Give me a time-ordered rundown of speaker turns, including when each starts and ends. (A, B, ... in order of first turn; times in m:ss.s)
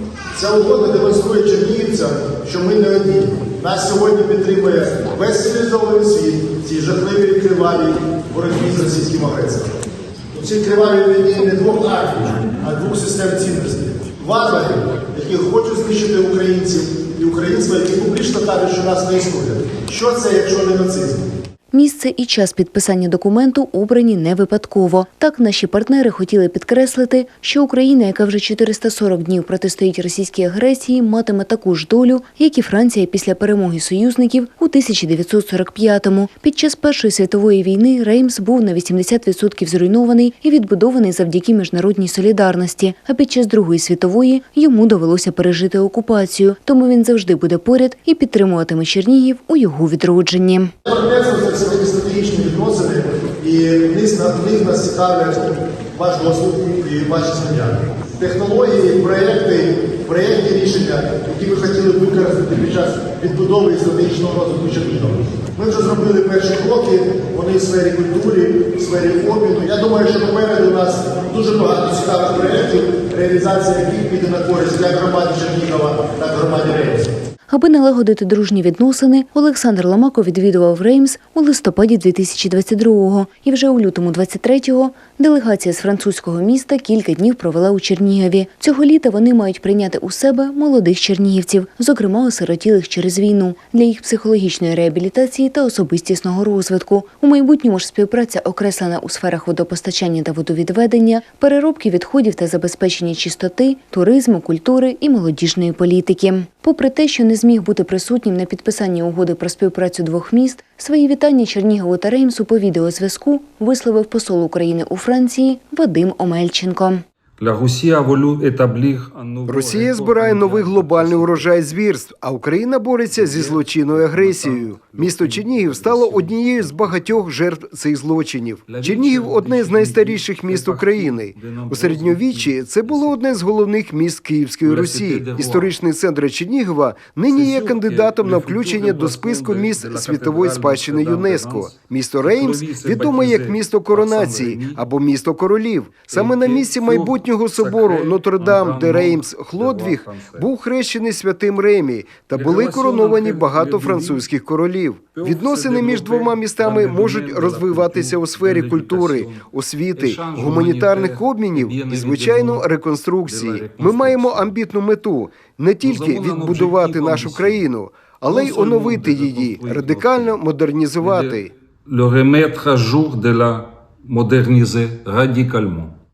0:00.3-0:09.8 A
0:10.3-0:21.3 A
0:21.7-0:50.7 B
0:50.8-1:17.1 A
1:17.5-1:57.0 B
1:57.4-2:01.5 C
1:59.5-2:51.5 D
2:03.1-2:07.2 C
2:08.7-2:13.2 C
2:14.6-2:15.8 C
2:17.3-2:24.8 C
2:26.1-2:30.5 C
2:32.3-2:34.2 C
2:35.1-2:39.4 C
2:40.0-2:42.7 C
2:43.2-2:44.5 C
2:45.8-2:47.6 C
2:48.2-2:50.4 C
2:51.0-2:55.9 C